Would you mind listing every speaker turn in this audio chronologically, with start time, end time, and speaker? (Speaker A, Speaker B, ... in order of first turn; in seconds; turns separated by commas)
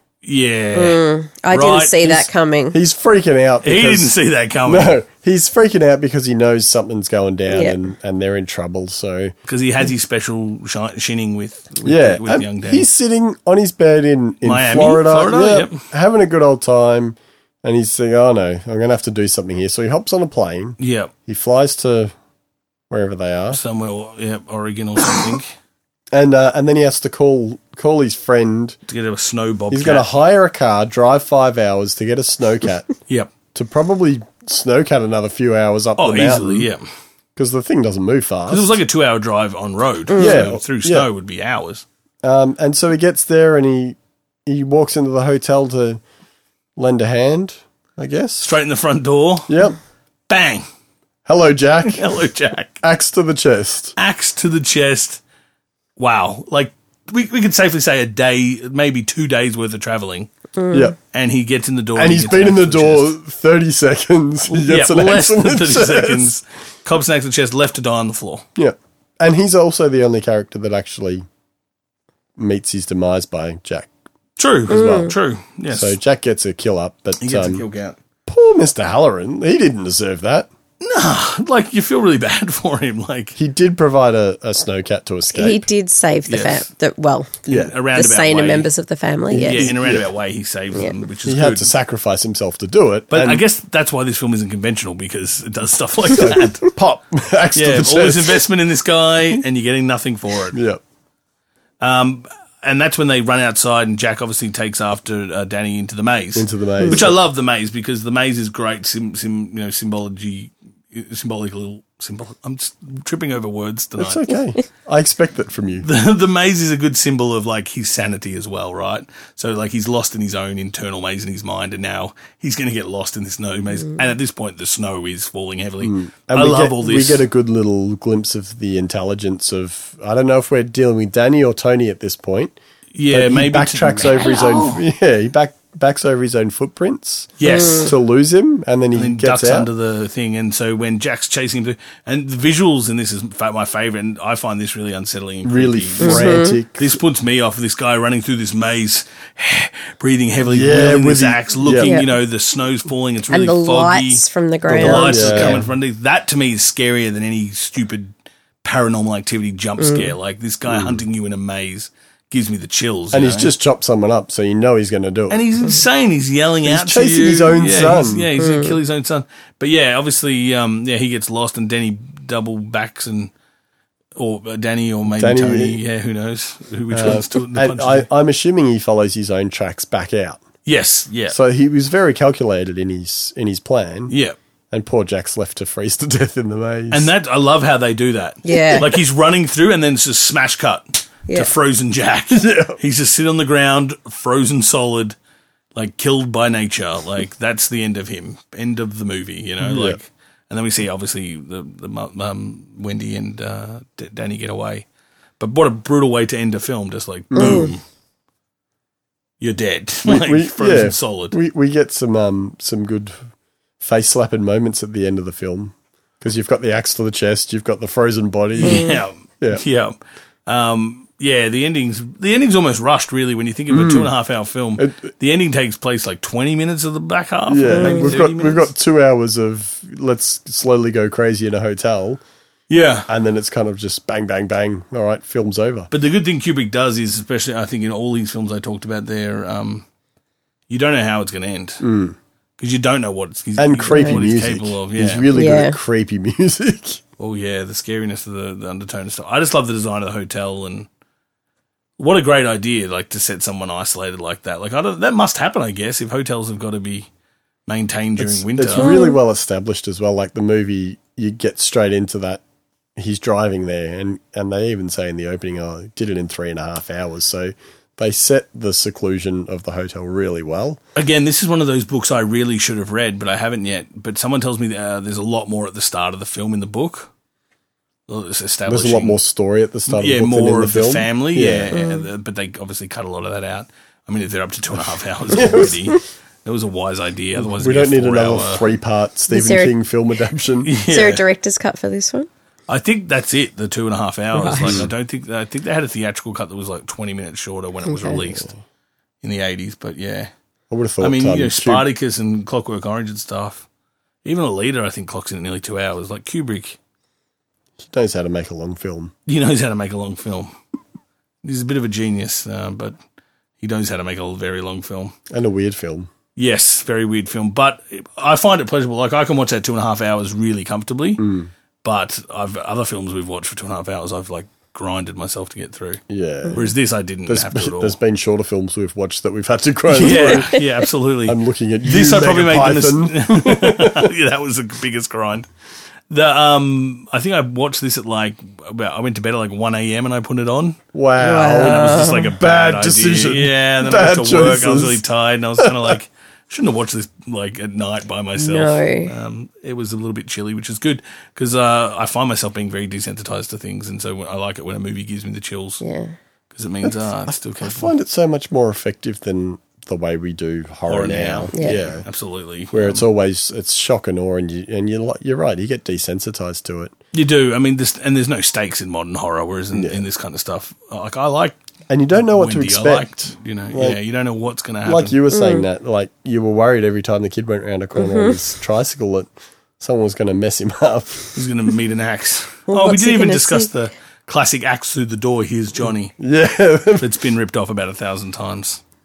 Speaker A: 0.2-2.3, Speaker B: 0.7-2.8, Speaker C: 2.7-4.1, Speaker A: 3.6-5.0, Speaker C: 4.7-9.3, Speaker B: 7.5-7.8, Speaker A: 9.5-12.9, Speaker C: 11.8-22.1, Speaker A: 14.4-15.8, Speaker A: 20.8-21.1, Speaker C: 22.9-23.6, Speaker A: 23.5-25.5, Speaker C: 26.1-28.8, Speaker A: 28.9-30.1, Speaker C: 29.7-32.9, Speaker C: 33.5-36.7, Speaker A: 36.0-36.9, Speaker C: 37.4-38.8, Speaker A: 38.5-41.9, Speaker B: 40.1-40.5, Speaker C: 40.2-41.1, Speaker C: 42.2-46.0, Speaker C: 46.8-48.5, Speaker A: 48.4-49.6, Speaker C: 49.5-49.8, Speaker A: 50.3-50.6, Speaker C: 51.3-52.1, Speaker A: 51.9-52.8, Speaker C: 52.8-54.0, Speaker A: 54.0-55.2, Speaker A: 56.0-60.3, Speaker B: 60.6-60.9, Speaker A: 61.1-63.1, Speaker C: 62.0-66.3, Speaker A: 64.5-68.5, Speaker C: 68.6-71.2, Speaker C: 72.4-73.9, Speaker A: 74.4-76.0, Speaker C: 74.7-75.1, Speaker B: 74.7-75.1, Speaker C: 75.7-77.7, Speaker A: 77.2-78.0, Speaker C: 78.3-80.5, Speaker A: 80.8-83.4, Speaker C: 83.4-85.7, Speaker B: 85.3-89.7, Speaker A: 86.3-86.7, Speaker A: 87.5-88.7, Speaker C: 87.5-87.8, Speaker C: 89.3-90.1, Speaker A: 89.4-91.7, Speaker B: 90.7-91.0, Speaker C: 91.2-93.5, Speaker A: 93.1-96.7, Speaker C: 96.1-98.4, Speaker A: 97.5-100.6, Speaker C: 100.5-100.8, Speaker A: 101.8-114.2, Speaker C: 106.3-107.2, Speaker C: 114.0-115.9, Speaker A: 115.8-127.2, Speaker C: 125.8-132.6, Speaker A: 132.9-134.8, Speaker C: 133.1-139.7, Speaker A: 137.4-137.9, Speaker B: 137.4-137.9, Speaker A: 138.9-163.5, Speaker C: 145.4-147.0, Speaker B: 146.0-146.6, Speaker C: 150.4-152.0, Speaker B: 151.8-152.1, Speaker B: 153.3-155.6, Speaker C: 154.7-155.7, Speaker B: 159.8-160.1, Speaker C: 160.7-161.0, Speaker C: 163.1-165.7, Speaker A: 165.3-173.3, Speaker C: 166.7-168.3, Speaker B: 168.4-168.8, Speaker A: 174.2-178.1, Speaker C: 175.1-175.8, Speaker C: 176.9-180.4, Speaker A: 180.7-181.4, Speaker C: 181.3-184.1, Speaker A: 184.1-184.4, Speaker C: 184.7-187.1, Speaker A: 186.9-195.2, Speaker B: 188.4-188.9, Speaker C: 192.3-192.8, Speaker A: 195.8-204.9, Speaker C: 199.6-200.0, Speaker A: 205.4-207.8, Speaker C: 207.3-207.7, Speaker B: 207.4-207.7, Speaker A: 209.4-211.4, Speaker C: 210.1-213.2, Speaker C: 213.8-219.6, Speaker A: 218.6-219.9, Speaker B: 218.6-219.0, Speaker A: 220.5-228.7, Speaker C: 223.7-224.1, Speaker C: 224.8-225.1, Speaker C: 227.5-232.2, Speaker B: 227.7-228.2, Speaker A: 232.7-233.1, Speaker C: 233.1-235.9, Speaker A: 235.9-239.8, Speaker A: 240.7-241.8, Speaker C: 241.8-242.2, Speaker A: 242.6-245.3, Speaker C: 243.6-247.0, Speaker B: 243.9-244.2, Speaker B: 245.3-245.8, Speaker A: 247.2-250.9, Speaker A: 252.0-257.1, Speaker A: 257.7-258.9, Speaker C: 258.2-262.4, Speaker B: 258.8-259.2, Speaker C: 263.0-270.8, Speaker A: 271.0-277.1, Speaker A: 278.1-279.2, Speaker C: 278.7-281.8, Speaker A: 279.9-288.7, Speaker B: 281.7-282.1, Speaker C: 285.3-285.8, Speaker C: 287.4-290.7, Speaker B: 289.3-289.8, Speaker A: 290.6-291.2, Speaker B: 290.9-292.3, Speaker A: 292.7-298.5, Speaker B: 294.4-294.8, Speaker C: 294.5-294.9, Speaker B: 297.9-298.2, Speaker A: 299.2-300.3, Speaker C: 300.7-301.9, Speaker A: 301.0-303.6, Speaker A: 304.2-306.8, Speaker C: 307.8-309.1, Speaker A: 309.3-310.5, Speaker A: 311.4-313.0, Speaker A: 313.6-315.1, Speaker C: 315.3-316.1, Speaker A: 316.4-321.2, Speaker C: 321.2-321.5, Speaker A: 321.8-326.0, Speaker C: 326.1-326.7, Speaker A: 326.5-328.0, Speaker C: 327.3-330.6, Speaker A: 329.9-335.5, Speaker C: 331.3-334.1, Speaker A: 336.1-340.8, Speaker C: 340.9-345.0, Speaker B: 341.2-342.3, Speaker A: 341.6-355.8, Speaker C: 345.6-345.9, Speaker B: 348.4-349.1, Speaker B: 355.8-356.1, Speaker A: 356.5-357.9, Speaker C: 356.9-362.1, Speaker A: 360.9-363.0, Speaker B: 361.5-361.8, Speaker C: 362.7-366.9, Speaker A: 367.1-371.6, Speaker C: 369.7-370.0, Speaker C: 371.9-374.0, Speaker A: 372.2-375.2, Speaker C: 374.9-381.4, Speaker B: 375.3-375.6, Speaker B: 377.9-378.5, Speaker A: 381.4-386.2, Speaker B: 382.7-383.7, Speaker C: 386.2-387.1, Speaker A: 387.0-388.8